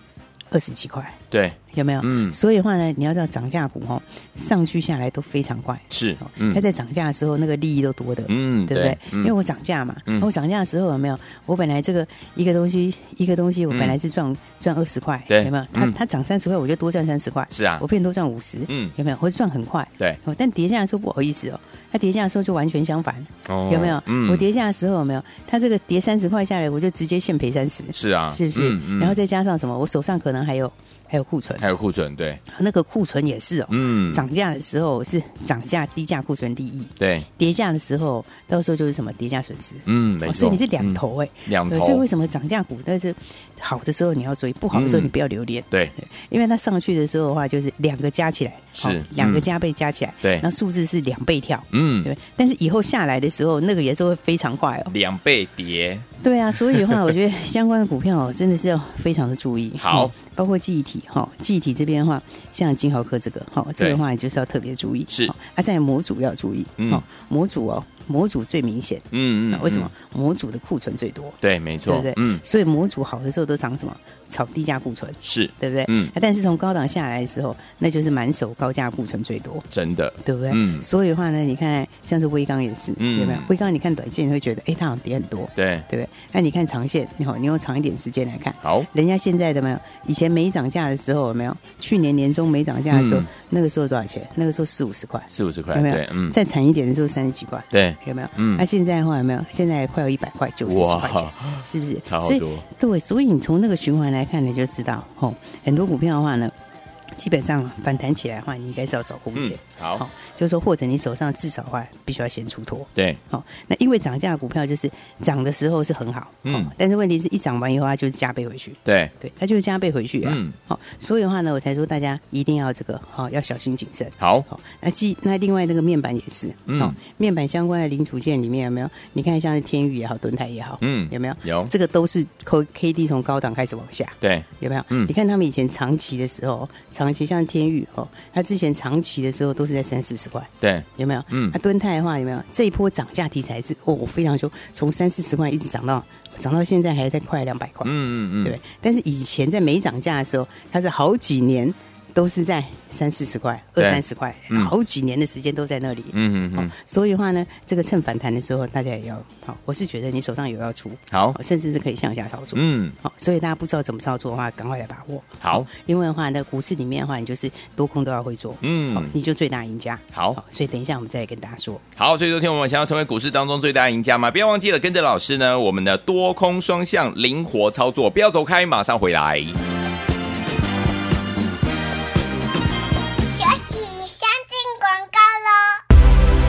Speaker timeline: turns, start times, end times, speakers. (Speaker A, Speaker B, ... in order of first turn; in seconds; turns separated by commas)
Speaker A: 0.5-1.2, Speaker B: 1.3-2.4, Speaker A: 1.7-31.7, Speaker B: 5.9-6.6, Speaker B: 8.3-9.3, Speaker B: 13.7-14.0, Speaker B: 15.3-15.9, Speaker B: 17.5-17.8, Speaker B: 18.7-18.9, Speaker B: 23.4-24.4, Speaker B: 27.9-29.2, Speaker B: 31.6-32.4, Speaker A: 32.5-54.9, Speaker B: 33.7-34.2, Speaker B: 37.0-37.3, Speaker B: 39.9-42.0, Speaker B: 44.7-45.1, Speaker B: 48.8-49.5, Speaker B: 51.7-52.1, Speaker B: 54.9-56.1, Speaker A: 56.2-79.7, Speaker B: 56.7-57.0, Speaker B: 59.8-60.1, Speaker B: 65.1-65.3, Speaker B: 66.8-67.0, Speaker B: 69.1-69.9, Speaker B: 71.4-72.4, Speaker B: 75.2-76.1, Speaker B: 79.7-80.8, Speaker A: 80.2-106.5, Speaker B: 83.0-83.5, Speaker B: 85.5-85.8, Speaker B: 88.6-88.9, Speaker B: 92.9-93.3, Speaker B: 95.3-96.3, Speaker B: 97.7-98.6, Speaker B: 100.6-102.6, Speaker A: 107.2-171.8, Speaker B: 109.3-110.0, Speaker B: 116.5-116.7, Speaker B: 118.8-119.1, Speaker B: 120.2-120.5, Speaker B: 124.2-124.5, Speaker B: 126.7-127.0, Speaker B: 130.8-131.7, Speaker B: 134.2-135.1, Speaker B: 140.6-141.6, Speaker B: 147.8-148.6, Speaker B: 153.8-154.7, Speaker B: 156.1-156.7, Speaker B: 161.1-161.4, Speaker B: 162.5-163.0, Speaker B: 165.4-165.7, Speaker B: 168.6-169.1, Speaker B: 170.1-170.4, Speaker B: 172.0-179.6, Speaker C: 183.3-185.8